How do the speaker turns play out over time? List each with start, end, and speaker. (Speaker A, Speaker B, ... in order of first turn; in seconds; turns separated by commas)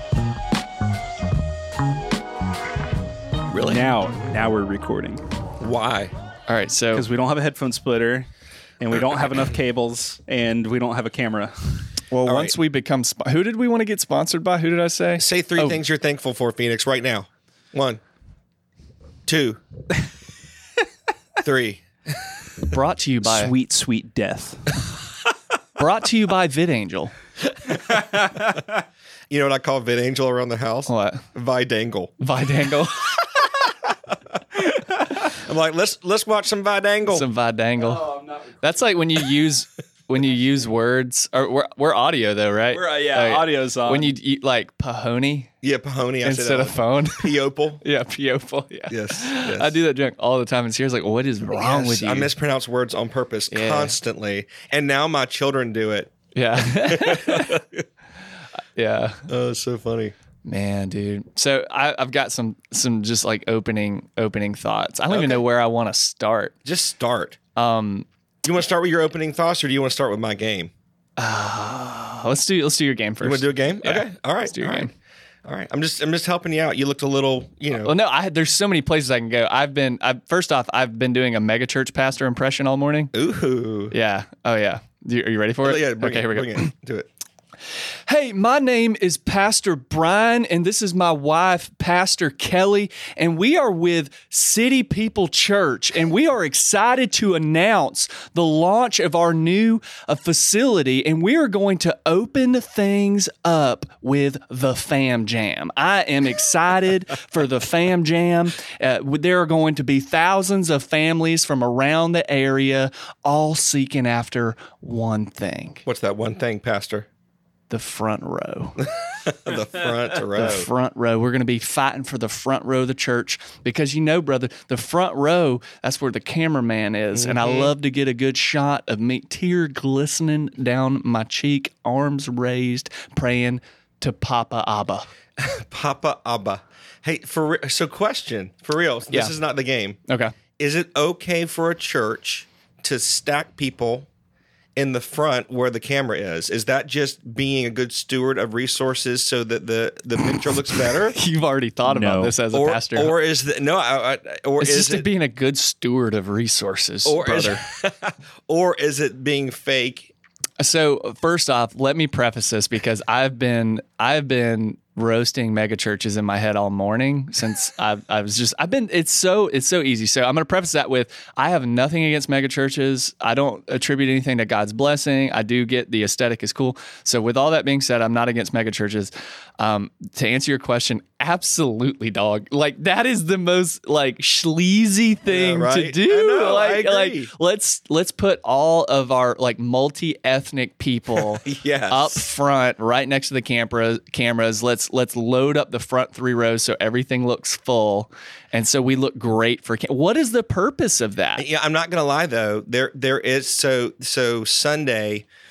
Speaker A: 3.5-3.9, Speaker B: 3.6-5.2, Speaker A: 5.6-6.1, Speaker C: 6.5-7.0, Speaker B: 6.9-8.3, Speaker B: 8.8-11.5, Speaker C: 12.1-15.8, Speaker A: 12.2-12.5, Speaker A: 15.2-18.0, Speaker A: 19.2-19.6, Speaker A: 21.4-22.2, Speaker C: 22.7-23.5, Speaker B: 23.2-24.7, Speaker C: 25.8-27.1, Speaker B: 28.1-28.4, Speaker A: 29.3-32.1, Speaker C: 30.9-31.2, Speaker C: 32.2-33.3, Speaker A: 35.1-37.3, Speaker C: 37.1-38.1, Speaker B: 37.8-38.8, Speaker C: 38.6-45.5, Speaker B: 42.7-44.1, Speaker A: 45.6-47.8, Speaker C: 46.2-52.3, Speaker A: 48.9-49.7, Speaker A: 51.5-57.8, Speaker C: 53.5-54.0, Speaker C: 56.3-57.6, Speaker C: 58.8-59.2, Speaker A: 59.3-60.1, Speaker C: 60.4-66.5, Speaker A: 65.1-65.4, Speaker A: 66.6-67.4, Speaker C: 67.5-68.0, Speaker A: 68.4-70.7, Speaker C: 71.2-74.9, Speaker A: 73.2-74.9, Speaker A: 75.4-77.9, Speaker C: 77.8-83.1, Speaker A: 83.1-83.9, Speaker C: 83.9-86.7, Speaker A: 85.6-87.1, Speaker C: 88.0-115.8, Speaker A: 115.8-117.1, Speaker C: 117.7-118.9, Speaker A: 118.8-120.7, Speaker C: 120.3-135.1, Speaker A: 127.1-127.7, Speaker A: 135.4-140.0, Speaker C: 140.1-140.3, Speaker A: 140.6-144.1, Speaker A: 144.8-151.2, Speaker C: 150.7-153.1, Speaker B: 151.8-152.3, Speaker A: 152.5-155.1, Speaker C: 154.6-157.6, Speaker A: 157.1-160.1, Speaker C: 160.6-201.4, Speaker A: 185.3-187.3, Speaker A: 191.4-192.2, Speaker A: 201.4-205.2